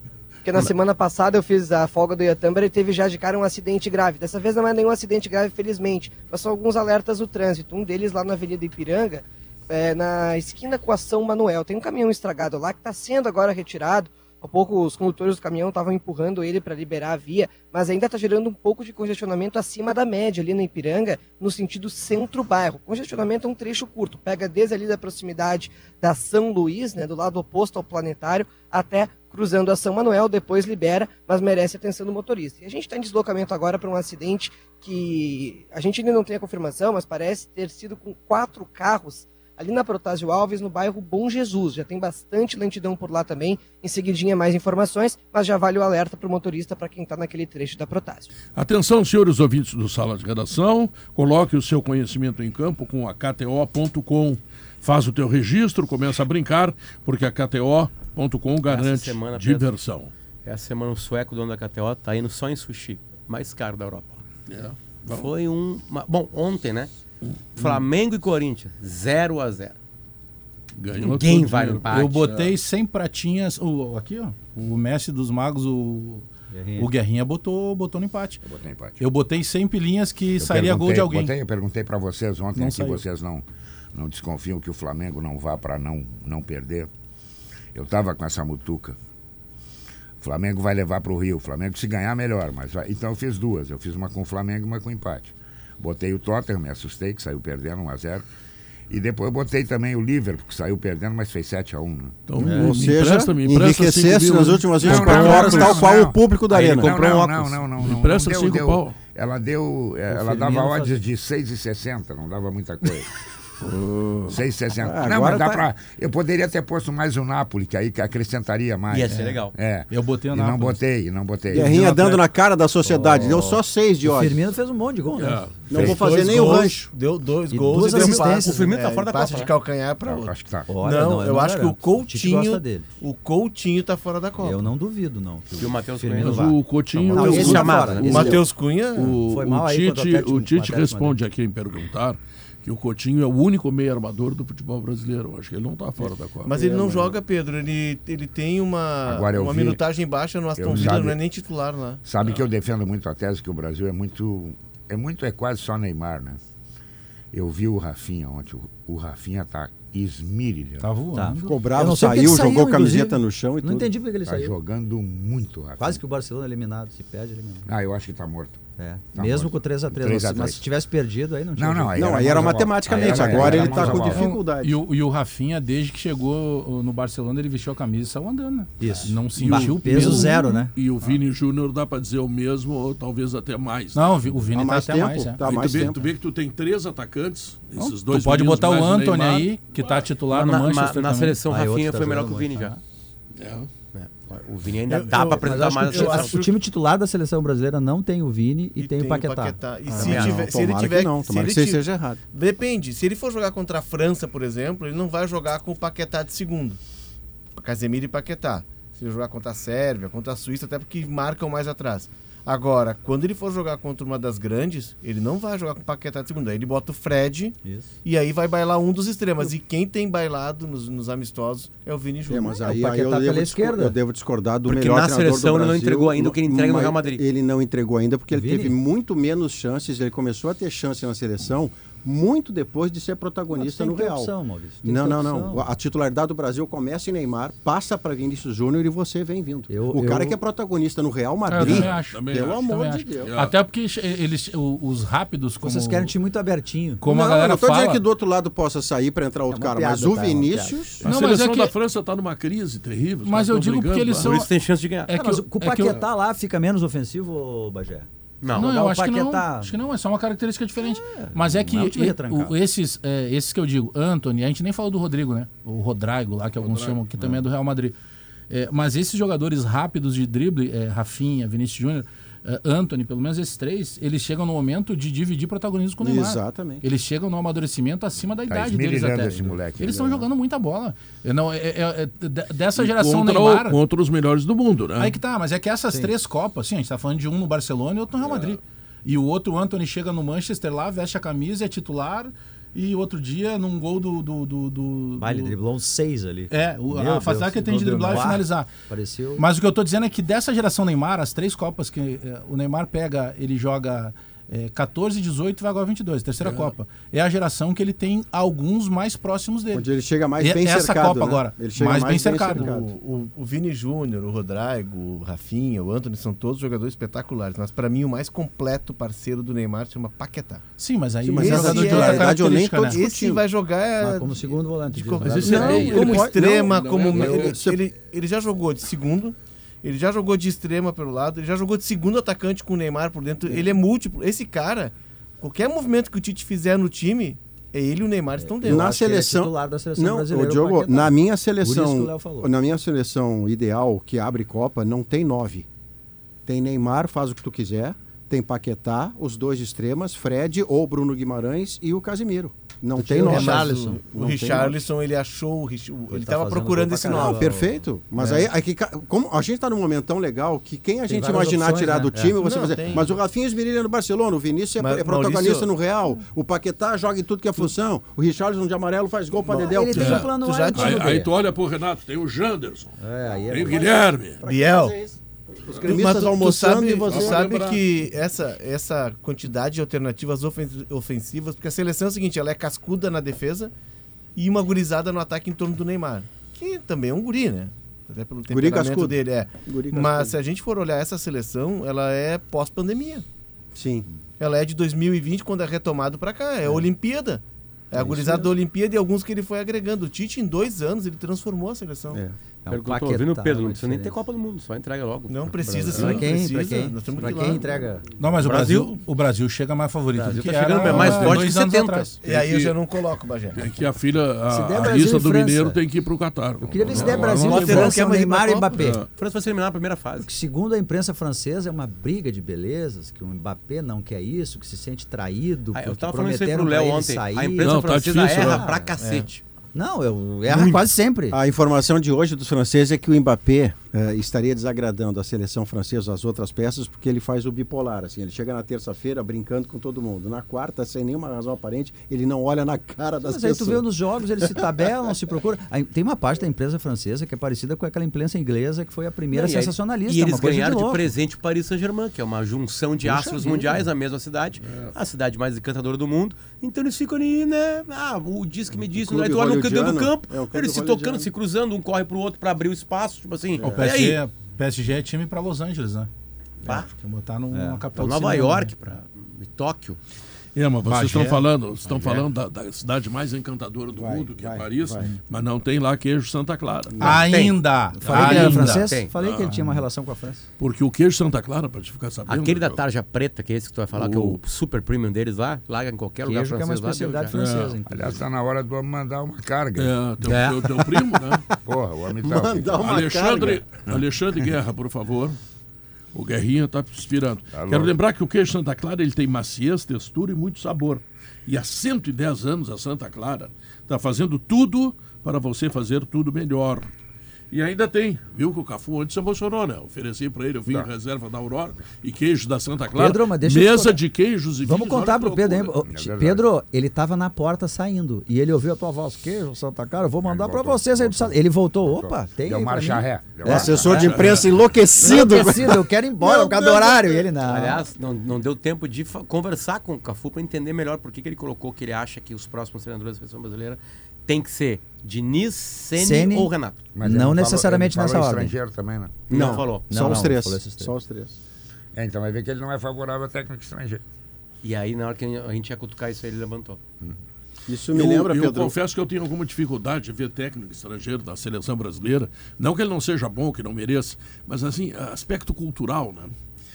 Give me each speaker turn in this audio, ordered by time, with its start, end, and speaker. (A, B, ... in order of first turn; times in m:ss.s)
0:00.4-0:48.3 A
0:48.6-1:00.1 B
0:58.7-0:59.7 C
1:00.4-1:04.2 C
1:04.5-1:05.3 B
1:05.1-1:06.9 C
1:07.6-1:09.8 C
1:10.8-1:12.5 B
1:11.0-1:12.3 C
1:11.9-1:18.4 D
1:16.5-1:16.9 E
1:18.4-1:19.0 F
1:19.0-1:21.3 D
1:20.4-1:26.9 F
1:22.6-1:23.0 D
1:27.7-1:29.0 F
1:30.2-1:38.2 F
1:38.9-1:42.2 F
1:42.3-1:45.9 B
1:42.4-1:42.8 E
1:42.4-1:47.1 G
1:44.8-1:53.1 F
1:46.5-1:47.5 C
1:47.7-1:49.0 B
1:50.1-1:51.0 E
1:54.3-2:01.8 F
1:54.8-1:55.6 G
1:58.9-1:59.6 C
1:59.1-2:00.8 D
2:01.5-2:04.4 G
2:01.5-2:02.2 D
2:02.8-2:05.4 E
2:05.2-2:06.7 B
2:05.7-2:06.9 G
2:05.8-2:06.1 F
2:06.0-2:14.7 H
2:07.5-2:08.6 E
2:07.8-2:09.6 C
2:10.0-2:10.7 F
2:10.7-2:12.9 E
2:14.4-2:18.4 E
2:15.6-2:16.6 C
2:16.2-2:18.4 B
2:17.1-2:18.3 C
2:17.3-2:17.9 G
2:18.0-2:19.2 H
2:19.0-2:26.5 B
2:19.0-2:21.2 E
2:26.4-2:32.0 H
2:26.5-2:27.2 G
2:29.0-2:29.8 F
2:30.6-2:31.2 F
2:32.0-2:36.4 F
2:37.3-2:40.9 F
2:40.8-2:41.4 D
2:41.2-2:44.5 E
2:41.4-2:43.9 G
2:44.2-2:46.0 F
2:45.8-2:47.7 E
2:47.7-2:48.6 F
2:48.8-2:54.1 E
2:49.2-2:50.6 F
2:51.6-2:54.4 F
2:52.0-2:54.8 G
2:53.5-3:01.1 D
2:58.8-3:00.7 E
2:59.4-3:04.0 B
3:03.9-3:05.9 D
3:04.5-3:06.0 G
3:05.4-3:09.5 B
3:07.8-3:11.4 D
3:10.3-3:12.8 C
3:11.5-3:12.7 E
3:13.4-3:13.7 B
3:13.9-3:16.4 C
3:14.9-3:16.5 H
3:15.4-3:20.1 E
3:18.8-3:26.8 H
3:19.9-3:22.2 G
3:20.0-3:20.5 C
3:27.6-3:42.6 H
3:37.6-3:37.9 E
3:42.3-4:03.3 G
3:42.6-3:44.0 E
3:44.7-3:47.2 C
3:48.3-3:48.8 E
3:53.5-3:55.7 E
3:59.7-4:00.4 E
4:01.5-4:06.1 D
4:01.6-4:01.9 E
4:02.0-4:02.6 B
4:03.2-4:03.5 B
4:05.6-4:07.0 E
4:07.0-4:08.0 D
4:07.0-4:11.0 G
4:09.5-4:11.0 E
4:11.0-4:11.7 D
4:11.0-4:14.4 B
4:13.3-4:14.5 D
4:14.2-4:15.1 C
4:15.1-4:16.0 D
4:15.1-4:19.8 E
4:18.4-4:19.2 C
4:18.5-4:28.0 D
4:20.8-4:22.6 E
4:26.6-4:27.0 B
4:28.5-4:43.8 D
4:36.0-4:36.8 G
4:38.5-4:40.3 F
4:42.8-4:45.2 B
4:45.0-4:55.6 D
4:48.2-4:48.6 B
4:55.2-4:59.5 E
4:56.5-4:58.7 D
4:59.4-5:09.8 D
5:06.4-5:06.7 B
5:09.7-5:12.9 G
5:10.4-5:12.7 D
5:12.5-5:20.6 H
5:20.8-5:23.0 D
5:21.2-5:23.4 G
5:21.4-5:22.3 H
5:23.0-5:39.0 H
5:24.0-5:26.6 E
5:25.2-5:27.6 B
5:25.8-5:27.8 G
5:38.4-5:42.5 E
5:38.6-5:45.7 G
5:46.5-5:54.8 G
5:53.0-5:54.7 E
5:53.0-5:57.6 H
5:56.1-5:57.7 E
5:57.1-6:10.2 G
5:58.2-5:58.5 H
6:01.1-6:02.4 E
6:02.2-6:03.2 H
6:04.8-6:05.7 H
6:09.5-6:11.2 H
6:09.5-6:11.3 E
6:09.9-6:13.0 B
6:13.0-6:14.0 E
6:13.5-6:14.4 B
6:13.5-6:15.2 G
6:14.4-6:15.0 H
6:15.7-6:17.5 G
6:15.7-6:16.0 B
6:15.8-6:23.7 H
6:17.1-6:17.8 B
6:24.4-6:33.2 H
6:28.5-6:30.4 G
6:33.8-6:34.1 G
6:34.4-6:42.2 H
6:38.0-6:38.5 G
6:42.6-6:44.2 E
6:42.7-6:46.2 C
6:45.3-6:47.6 H
6:45.9-6:48.0 E
6:48.2-6:52.2 D
6:48.4-6:49.0 C
6:50.2-6:50.4 E
6:50.2-6:52.1 C
6:51.0-6:51.4 B
6:52.2-6:53.6 H
6:52.2-6:52.8 B
6:53.6-6:58.0 B
6:54.5-6:55.8 E
6:56.6-6:59.0 E
6:56.9-6:57.8 C
6:57.4-6:58.8 H
6:58.7-6:59.1 B
6:59.2-7:00.3 C
7:00.2-7:08.9 E
7:05.7-7:09.4 C
7:07.6-7:08.7 B
7:09.0-7:09.3 H
7:09.7-7:11.4 E
7:11.3-7:23.8 G
7:23.2-7:31.1 E
7:29.3-7:44.2 C
7:33.0-7:33.8 G
7:34.6-7:34.9 B
7:38.8-7:41.3 G
7:43.6-7:43.9 G
7:43.6-7:46.1 D
7:46.6-7:46.9 C
7:46.9-7:49.0 D
7:47.5-7:47.8 E
7:47.9-7:50.0 C
7:50.6-7:57.2 B
7:50.9-7:51.4 D
7:53.9-7:55.1 G
7:57.0-7:57.2 G
7:57.0-7:58.9 D
7:57.2-7:59.1 C
7:58.0-8:00.5 E
7:58.1-7:59.6 B
7:59.5-7:59.8 D
8:00.6-8:02.8 B
8:02.3-8:07.5 C
8:03.9-8:04.4 B
8:06.2-8:08.2 E
8:07.3-8:07.8 B
8:07.9-8:10.0 F
8:09.8-8:11.5 B
8:11.6-8:12.9 F
8:12.2-8:13.7 G
8:12.8-8:15.4 B
8:16.1-8:26.9 B
8:17.5-8:17.9 F
8:27.5-8:35.8 B
8:32.9-8:34.0 E
8:34.6-8:44.1 E
8:35.9-8:36.4 F
8:40.2-8:44.6 F
8:43.4-8:47.3 G
8:43.9-8:44.5 B
8:45.0-8:47.9 E
8:47.4-8:56.9 C
8:56.0-8:56.5 E
8:56.9-8:59.4 F
8:57.0-8:58.6 E
8:59.3-8:59.9 C
8:59.3-9:01.4 G
8:59.6-9:00.9 E
9:01.9-9:04.0 F
9:04.6-9:06.8 C
9:07.7-9:08.8 G
9:07.9-9:16.3 B